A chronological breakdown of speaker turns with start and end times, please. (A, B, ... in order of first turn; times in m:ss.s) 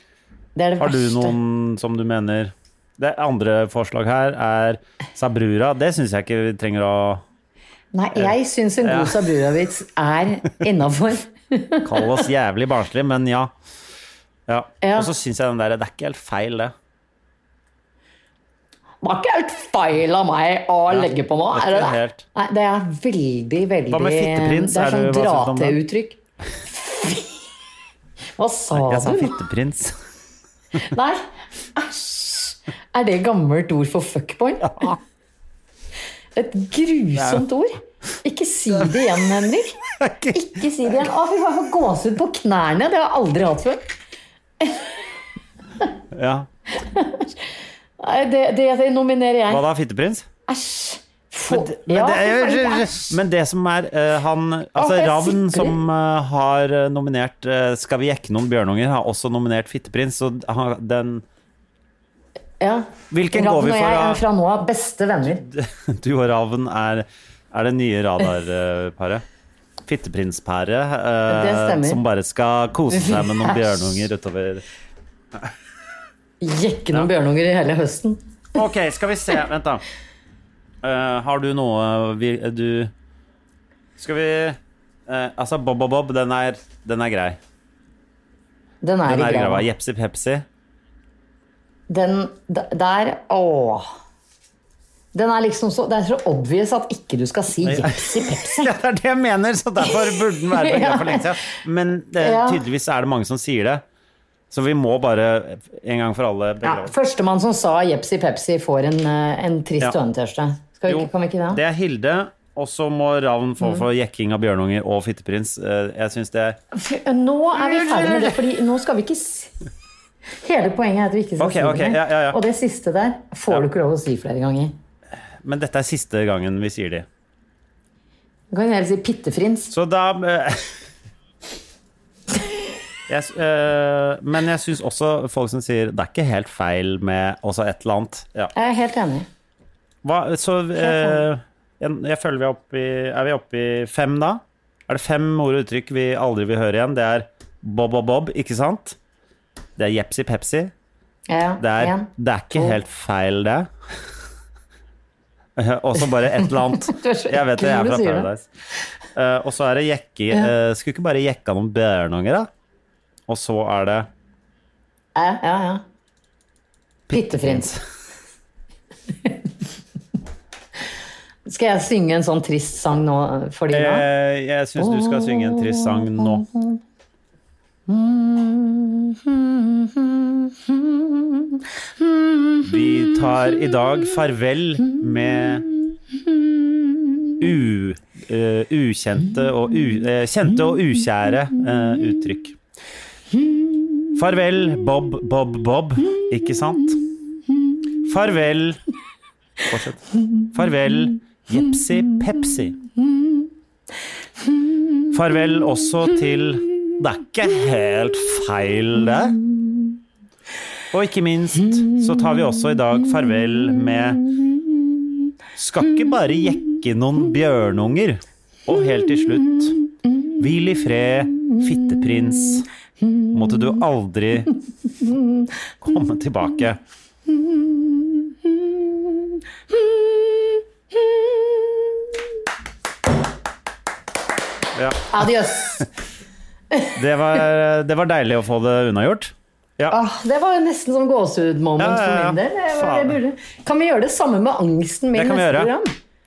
0:00.6-0:01.4 A
0:00.8-0:07.2 B
0:07.9-0:12.2 A
0:08.1-0:09.3 B
0:11.8-0:13.5 B
0:14.5-0:16.7 B
0:14.8-0:15.1 A
0:19.0-0:27.4 A
0:20.9-0:22.2 B
0:23.9-0:25.8 B
0:28.4-0:29.4 A
0:28.7-0:30.0 B
0:30.8-0:31.2 A
0:31.8-0:35.0 A
0:36.4-0:39.8 A
0:37.2-0:37.4 B
0:40.0-0:40.7 B
0:40.3-0:43.8 A
0:44.6-0:45.0 A
0:46.1-0:46.5 B
0:46.8-0:49.6 A
0:49.5-0:50.2 B
0:50.5-0:53.2 A
0:51.5-1:01.2 B
0:54.8-0:55.8 A
1:02.6-1:05.4 A
1:03.1-1:04.2 B
1:05.4-1:09.2 B
1:09.9-1:14.6 B
1:11.3-1:12.0 A
1:12.9-1:14.0 A
1:16.4-1:18.2 A
1:18.5-1:19.8 B
1:20.8-1:22.9 B
1:24.0-1:27.4 B
1:28.8-1:29.7 A
1:29.0-1:30.4 B
1:31.9-1:33.9 A
1:35.1-1:38.7 A
1:37.6-1:43.8 B
1:39.8-1:41.5 A
1:42.2-1:42.6 A
1:44.5-1:46.9 B
1:46.6-1:51.6 A
1:50.9-1:56.6 B
1:53.6-1:53.8 A
1:56.7-1:59.5 A
1:57.5-1:58.4 B
2:00.3-2:04.7 A
2:01.4-2:02.4 B
2:05.4-2:07.1 B
2:08.5-2:09.7 A
2:09.7-2:10.7 B
2:13.1-2:18.5 B
2:18.5-2:19.3 A
2:20.0-2:29.0 B
2:20.8-2:21.2 A
2:29.8-2:30.7 B
2:31.3-2:32.8 A
2:31.6-2:33.7 B
2:35.6-2:38.5 B
2:36.7-2:38.3 A
2:39.1-2:42.5 B
2:43.3-2:44.1 B
2:45.2-2:45.8 A
2:47.1-2:47.8 B
2:47.1-2:47.7 A
2:51.4-2:54.1 A
2:53.7-2:56.4 B
2:54.8-2:56.8 A
2:57.9-3:03.8 A
3:02.6-3:05.6 B
3:06.2-3:07.3 A
3:07.4-3:12.6 B
3:14.2-3:17.0 B
3:18.0-3:18.8 B
3:19.7-3:22.8 B
3:25.1-3:29.4 B
3:30.9-3:34.3 B
3:35.6-3:39.8 B
3:40.4-3:42.7 B
3:43.0-3:43.8 A
3:43.3-3:44.5 B
3:45.0-3:45.5 A
3:45.8-3:46.8 B
3:47.3-3:52.1 A
3:54.7-3:55.3 B
3:55.1-3:55.9 A
3:57.0-4:00.0 B
3:59.9-4:05.9 A
4:01.8-4:03.2 B
4:05.1-4:05.7 B